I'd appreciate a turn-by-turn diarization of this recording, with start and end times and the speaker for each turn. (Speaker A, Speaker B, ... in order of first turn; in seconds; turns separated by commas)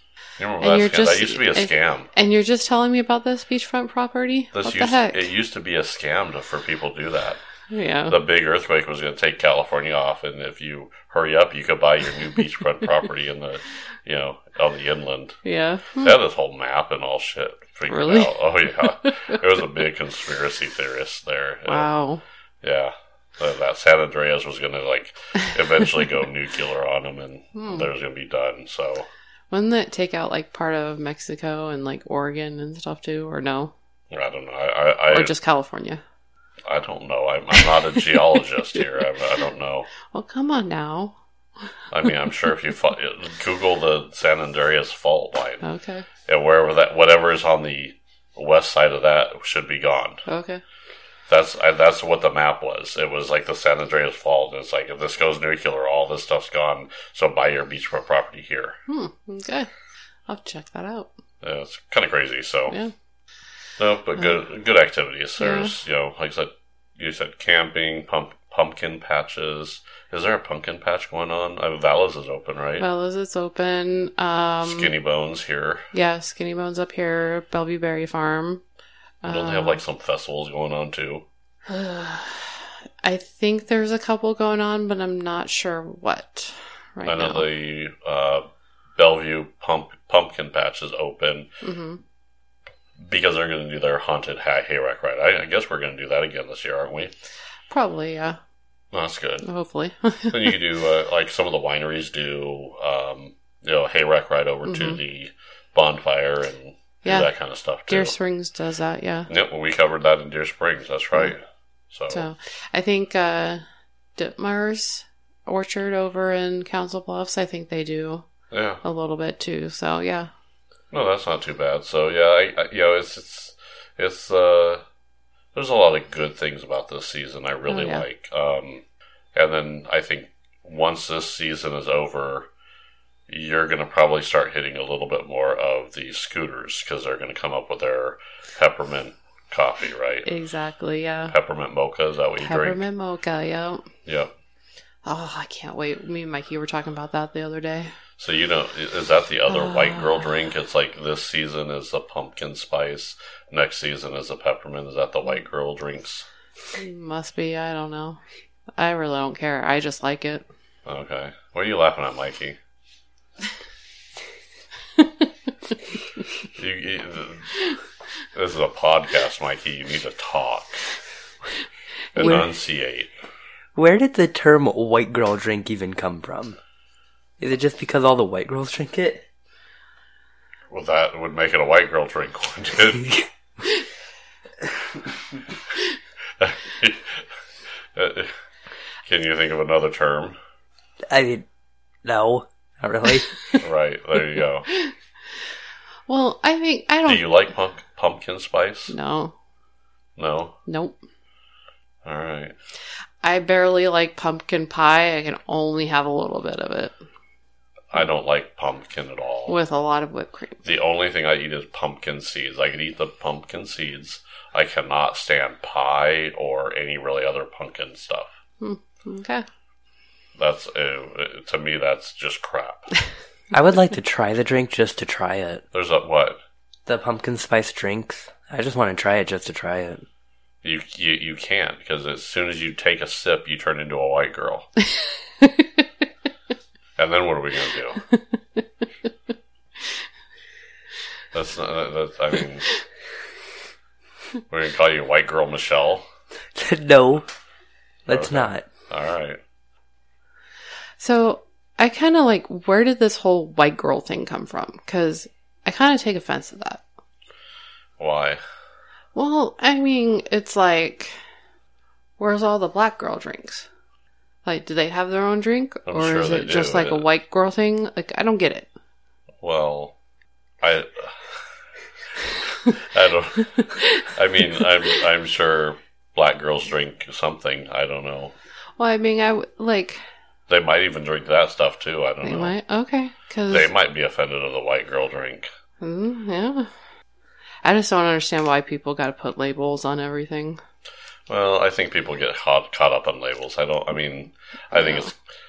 Speaker A: 0.4-2.1, Speaker B: 0.6-5.2, Speaker A: 4.5-7.4, Speaker B: 7.7-8.2, Speaker A: 8.1-15.4, Speaker B: 15.4-16.1, Speaker A: 16.0-21.9, Speaker B: 17.9-19.4, Speaker B: 21.7-22.2, Speaker A: 22.6-29.1, Speaker B: 27.5-27.9, Speaker B: 29.5-33.7, Speaker A: 34.1-35.3, Speaker B: 35.1-36.0, Speaker A: 36.7-39.9, Speaker B: 37.5-38.1, Speaker B: 40.0-41.2, Speaker A: 41.9-45.6, Speaker B: 45.6-46.1, Speaker A: 46.2-50.2, Speaker B: 50.3-50.6, Speaker A: 51.3-58.8, Speaker B: 58.9-59.7, Speaker B: 60.3-61.1, Speaker A: 61.4-62.8, Speaker A: 63.8-72.8, Speaker B: 65.4-65.8, Speaker B: 72.8-74.9, Speaker A: 74.6-75.9, Speaker B: 75.9-78.6, Speaker B: 79.2-79.8, Speaker A: 79.2-81.2, Speaker B: 81.7-87.4, Speaker A: 87.0-91.5, Speaker B: 91.6-92.0, Speaker A: 93.0-97.1, Speaker B: 97.7-98.4, Speaker A: 98.9-99.4, Speaker B: 99.4-100.6, Speaker A: 100.3-108.1, Speaker B: 104.6-105.0, Speaker B: 107.9-109.3, Speaker A: 109.3-112.3, Speaker B: 112.1-113.6, Speaker B: 114.2-118.3, Speaker A: 118.5-118.8, Speaker B: 118.8-120.3, Speaker A: 120.9-124.8, Speaker A: 125.5-128.8, Speaker B: 127.7-128.0, Speaker A: 129.3-132.5, Speaker A: 133.3-140.3, Speaker B: 140.2-141.3, Speaker A: 141.3-142.8, Speaker B: 142.4-143.9, Speaker A: 144.1-144.3, Speaker B: 145.0-147.9, Speaker A: 148.2-156.3, Speaker B: 149.5-150.1, Speaker B: 156.7-158.2, Speaker B: 158.8-160.4, Speaker A: 160.8-162.6, Speaker A: 166.5-167.5, Speaker A: 168.3-170.9, Speaker A: 172.1-173.1, Speaker C: 172.2-172.5, Speaker C: 173.7-176.6, Speaker C: 177.4-179.2, Speaker A: 180.7-183.2, Speaker A: 186.4-187.3, Speaker A: 187.9-188.3, Speaker A: 189.1-190.4, Speaker C: 191.1-191.4, Speaker C: 192.0-193.6, Speaker A: 193.6-194.7, Speaker B: 196.1-197.3, Speaker A: 197.1-198.9, Speaker B: 198.9-199.3, Speaker A: 200.2-200.6, Speaker B: 200.7-201.0, Speaker A: 202.0-202.5, Speaker B: 203.2-206.9, Speaker A: 207.9-209.6, Speaker B: 209.5-210.6, Speaker A: 210.6-218.3, Speaker B: 218.6-219.4, Speaker A: 220.4-222.9, Speaker C: 223.5-225.6, Speaker A: 225.7-226.4, Speaker C: 226.9-230.0, Speaker A: 230.6-234.7, Speaker B: 235.4-235.7, Speaker A: 237.0-238.0, Speaker B: 238.1-238.8, Speaker A: 241.3-242.7, Speaker A: 244.5-246.1, Speaker C: 246.5-247.2, Speaker C: 248.1-248.6, Speaker A: 248.1-249.4, Speaker B: 251.0-256.8, Speaker A: 258.0-258.4, Speaker B: 259.1-261.1, Speaker B: 262.2-263.7, Speaker B: 264.4-268.7, Speaker A: 265.9-267.0, Speaker A: 269.4-269.9, Speaker A: 270.6-271.5, Speaker A: 272.1-278.3, Speaker B: 273.5-274.6, Speaker B: 278.8-280.0, Speaker A: 280.5-282.5, Speaker B: 282.2-283.7, Speaker A: 283.5-285.5, Speaker B: 285.8-286.7, Speaker B: 287.6-290.6, Speaker A: 291.3-295.1, Speaker B: 294.7-295.1